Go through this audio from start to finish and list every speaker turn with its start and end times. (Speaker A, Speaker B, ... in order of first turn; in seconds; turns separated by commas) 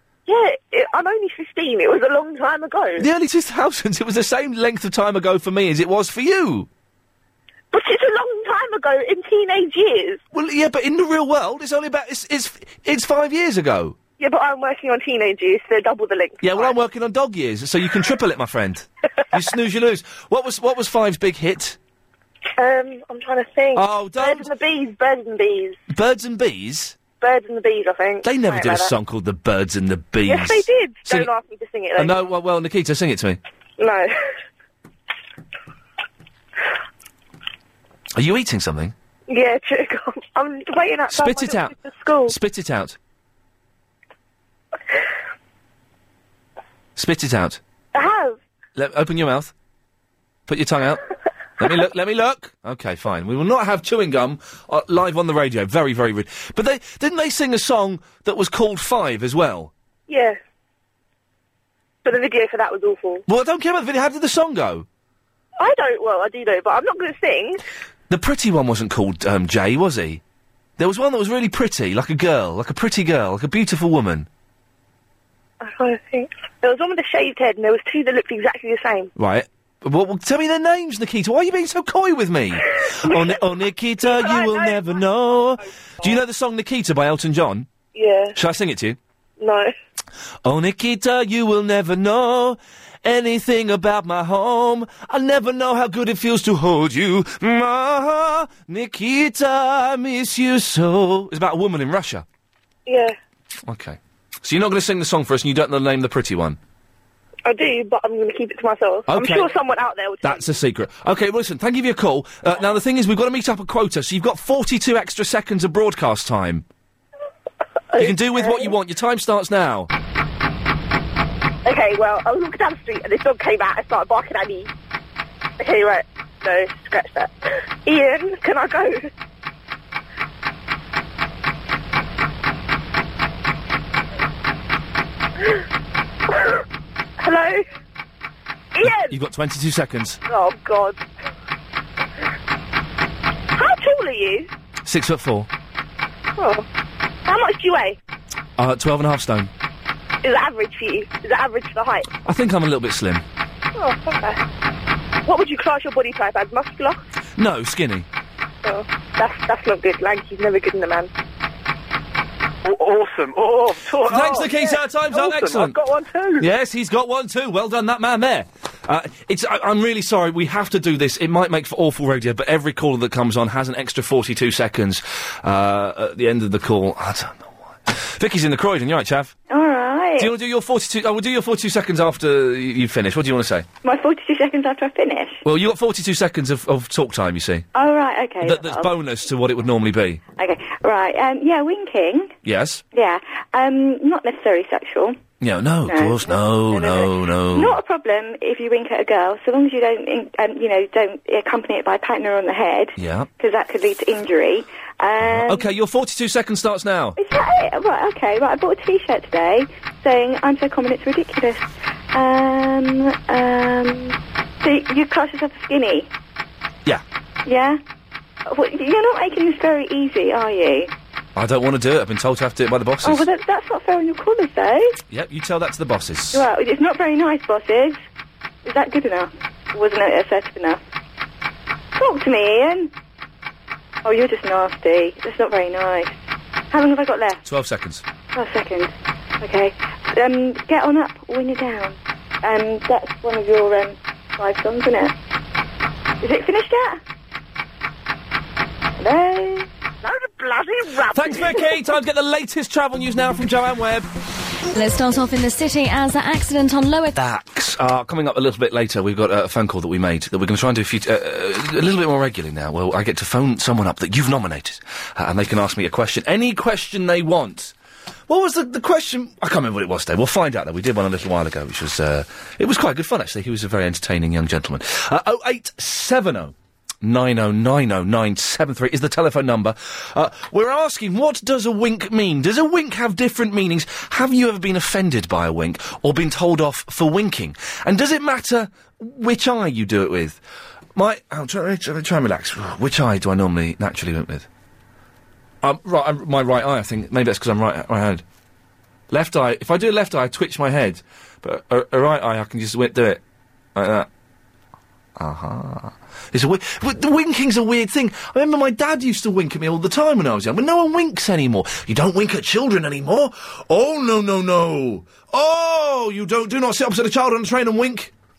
Speaker A: 0.2-3.0, Speaker B: 3.0-6.7, Speaker A: 7.7-10.2, Speaker B: 10.3-13.9, Speaker A: 14.2-16.7, Speaker B: 16.4-21.8, Speaker A: 22.6-25.8, Speaker B: 23.7-24.5, Speaker B: 25.9-27.0, Speaker A: 27.2-28.9, Speaker B: 28.2-31.3, Speaker A: 30.2-32.3, Speaker B: 31.9-33.4, Speaker A: 33.8-34.1, Speaker B: 38.1-38.9, Speaker A: 39.3-42.3, Speaker B: 41.1-41.7, Speaker B: 42.3-43.0, Speaker B: 47.0-47.6, Speaker A: 47.9-48.4, Speaker B: 48.8-49.5, Speaker B: 50.5-51.0, Speaker B: 51.6-59.7, Speaker A: 60.1-60.4, Speaker A: 62.0-63.2, Speaker B: 63.3-64.8, Speaker A: 65.6-67.6, Speaker B: 68.1-70.2, Speaker B: 70.8-74.3, Speaker A: 75.6-79.1, Speaker B: 79.2-87.7, Speaker A: 83.1-83.4, Speaker A: 84.0-85.0, Speaker A: 87.9-88.3, Speaker B: 88.3-89.0, Speaker A: 89.4-89.7, Speaker B: 90.4-102.2, Speaker A: 102.8-103.2, Speaker B: 103.7-106.6, Speaker A: 107.4-110.6, Speaker B: 109.1-109.5, Speaker B: 110.2-116.6, Speaker A: 117.9-118.7, Speaker B: 118.0-119.9, Speaker A: 121.6-124.7, Speaker A: 125.6-127.3, Speaker A: 127.8-129.1, Speaker A: 136.3-136.6, Speaker A: 137.2-137.6, Speaker A: 138.7-139.1, Speaker B: 138.8-140.2, Speaker A: 140.3-141.0, Speaker A: 143.6-144.5, Speaker B: 144.8-145.5, Speaker A: 146.4-146.6, Speaker A: 147.2-148.0, Speaker B: 148.6-149.5, Speaker A: 150.2-152.2, Speaker B: 152.2-153.2, Speaker A: 153.7-154.4, Speaker A: 155.2-157.0, Speaker B: 157.4-158.1, Speaker A: 158.6-161.1, Speaker C: 162.6-164.4, Speaker A: 163.8-164.8, Speaker B: 164.0-165.8, Speaker C: 165.1-166.0, Speaker A: 165.6-166.4, Speaker B: 166.4-179.3, Speaker D: 179.5-180.3, Speaker B: 180.2-183.7, Speaker D: 183.8-185.4, Speaker B: 185.4-187.7, Speaker D: 187.7-188.9, Speaker B: 188.4-190.2, Speaker D: 190.4-192.3, Speaker B: 192.4-192.8, Speaker D: 192.9-195.2, Speaker B: 195.4-197.7, Speaker D: 195.8-205.7, Speaker B: 203.0-203.3, Speaker B: 205.2-207.2, Speaker D: 207.2-216.1, Speaker D: 217.4-217.8, Speaker D: 218.5-220.9, Speaker B: 221.3-223.3, Speaker D: 223.0-224.9, Speaker B: 225.1-226.4, Speaker D: 226.3-228.0, Speaker D: 228.6-230.8, Speaker D: 232.0-232.9, Speaker D: 234.0-236.2, Speaker D: 236.7-237.4, Speaker B: 237.4-238.0, Speaker D: 238.3-245.1, Speaker D: 246.2-247.0, Speaker D: 249.0-249.7, Speaker A: 250.0-251.6, Speaker B: 251.1-254.1, Speaker E: 254.7-257.1, Speaker B: 257.1-267.7, Speaker B: 268.3-290.4, Speaker B: 290.9-294.5, Speaker B: 295.6-298.2, Speaker B: 299.1-303.2, Speaker B: 303.7-304.1, Speaker B: 305.2-318.1